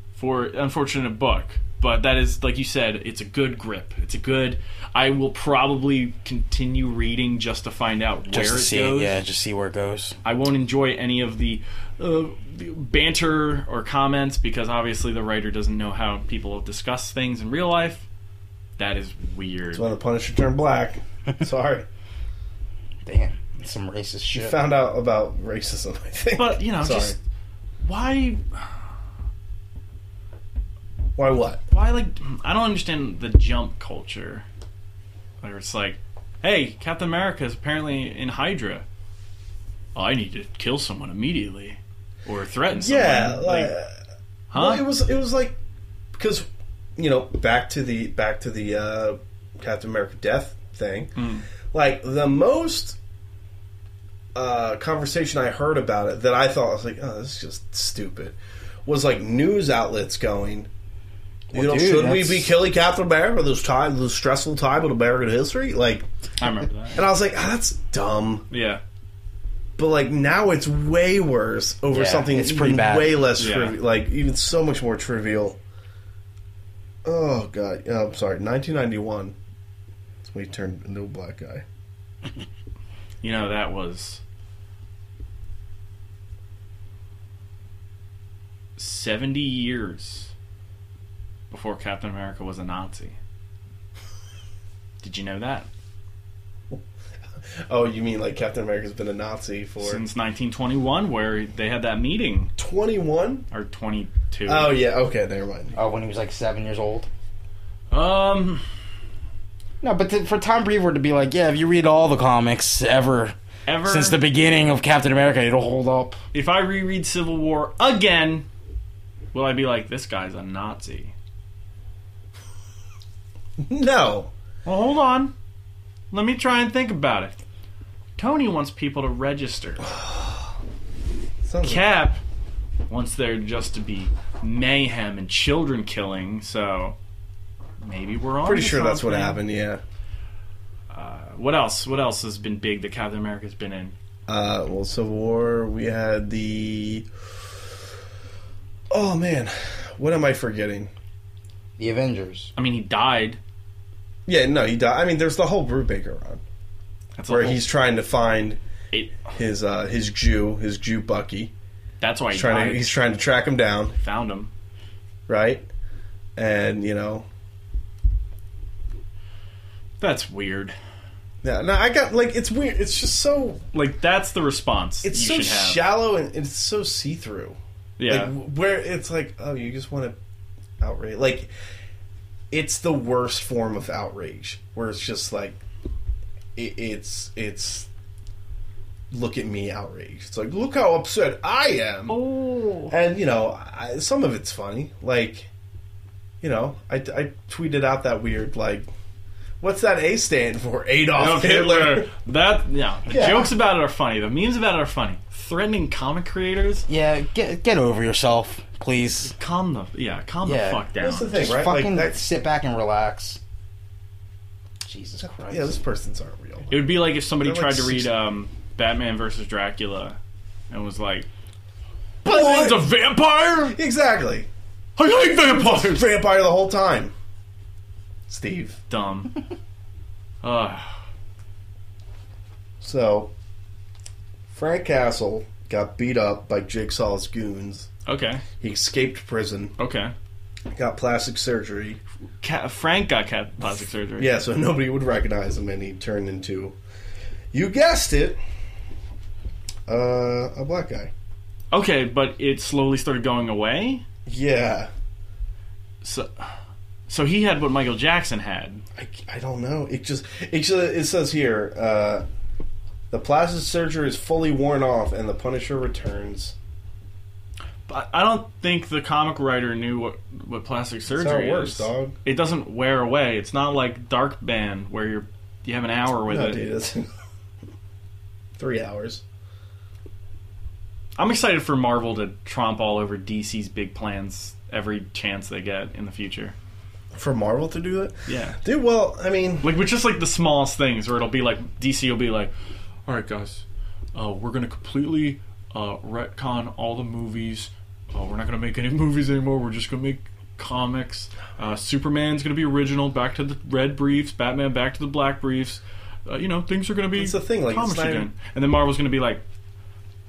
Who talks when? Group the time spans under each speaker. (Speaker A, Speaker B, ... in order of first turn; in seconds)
Speaker A: 0.1-9.2, 10.2-18.1, 18.8-19.9, 26.4-27.2, 27.8-28.4, 31.7-34.5, 35.4-38.9, 39.9-43.7, 44.5-44.8, 51.2-51.4, 66.4-67.0, 68.5-68.8, 73.4-73.8, 83.2-84.2, 88.8-90.3, 91.5-93.2, 95.0-95.7, 99.8-102.5, 103.5-104.8, 107.9-108.6, 113.7-114.2, 116.3-118.5, 119.3-121.1, 124.6-125.3, 126.1-127.4, 128.2-129.9, 131.6-132.2, 132.9-136.9, 137.8-139.4, 140.9-143.9, 152.6-153.4, 157.2-157.6, 158.9-159.2, 162.0-162.9, 164.0-164.5, 170.0-170.8, 173.7-175.8, 178.0-178.3, 192.1-192.9, 201.2-206.8, 209.3-211.6, 216.7-220.2, 220.7-221.3, 222.2-223.8, 225.0-226.1, 228.9-229.3, 230.4-230.9, 238.1-238.4, 239.8-240.1, 242.4-244.3, 251.7-254.0, 256.0-256.5, 257.1-258.8, 267.9-276.6, 281.2-286.5, 288.3-288.6, 289.6-292.5, 293.1-309.4
Speaker B: 8.3-10.2, 23.1-24.6, 61.5-62.5, 71.9-73.2, 105.8-107.1, 109.8-116.2, 151.8-152.5, 206.9-209.3, 210.4-210.8, 211.4-213.4, 214.8-215.7
Speaker C: 19.7-21.9, 24.3-27.1, 31.2-31.6, 42.7-43.9, 44.5-45.6, 46.1-51.2, 51.7-53.0, 54.3-60.7, 61.5-66.1, 66.9-68.5, 69.8-75.6, 77.0-79.3, 80.2-81.6, 97.4-100.0, 102.6-103.5, 104.5-105.8, 123.6-124.3, 129.9-130.5, 131.4-131.9, 138.4-139.8, 144.3-147.1, 148.9-150.9, 154.3-156.4, 157.3-158.6, 159.2-161.5, 162.3-163.9, 165.3-165.6, 166.3-167.3, 171.4-173.6, 175.0-180.2, 180.8-181.5, 182.5-185.6, 186.6-187.9, 189.1-192.2, 192.9-195.5, 196.4-198.9, 199.6-202.1, 203.1-203.5, 211.0-212.2, 215.2-218.1, 222.2-222.9, 223.7-224.5, 225.4-227.1, 228.3-228.8, 232.8-233.3, 234.5-237.9, 238.6-239.7, 240.7-242.0, 244.2-246.8, 247.5-248.4, 249.9-251.1, 254.2-254.9, 258.9-262.2, 263.1-266.5, 271.1-272.2, 276.3-277.1, 278.6-279.2, 287.1-289.7, 307.1-308.3